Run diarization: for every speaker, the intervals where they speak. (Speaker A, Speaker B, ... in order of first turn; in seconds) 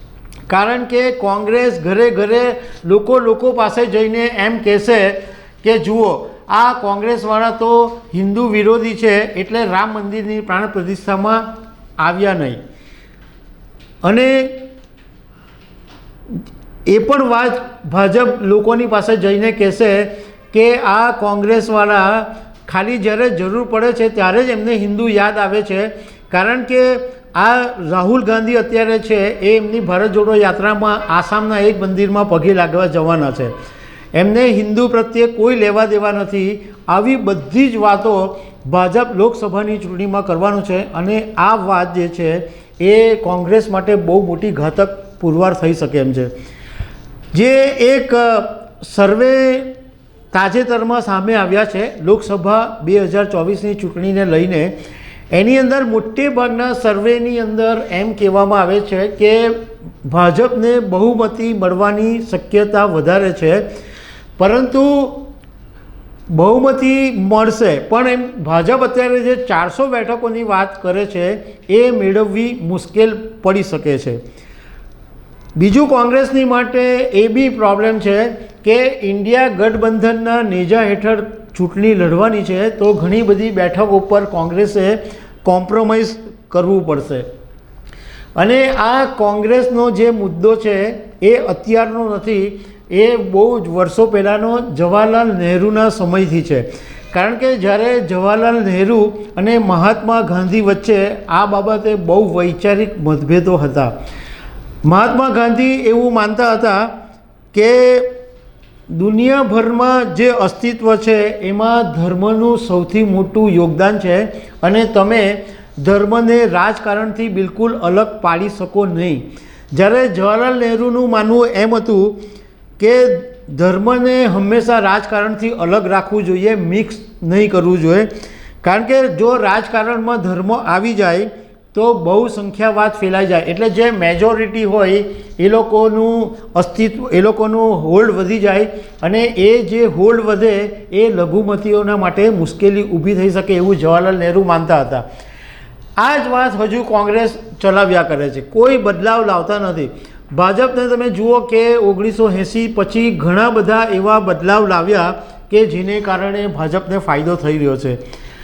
Speaker A: 0.5-12.6, 14.0-14.7, 16.9-33.5, 34.1-46.3, 47.3-49.7, 50.3-54.8, 55.3-63.6, 64.4-65.3, 66.3-74.2, 75.5-87.3, 88.3-104.0, 104.8-106.9, 107.5-108.1, 108.9-122.2, 122.8-128.1, 128.6-145.1, 146.0-158.0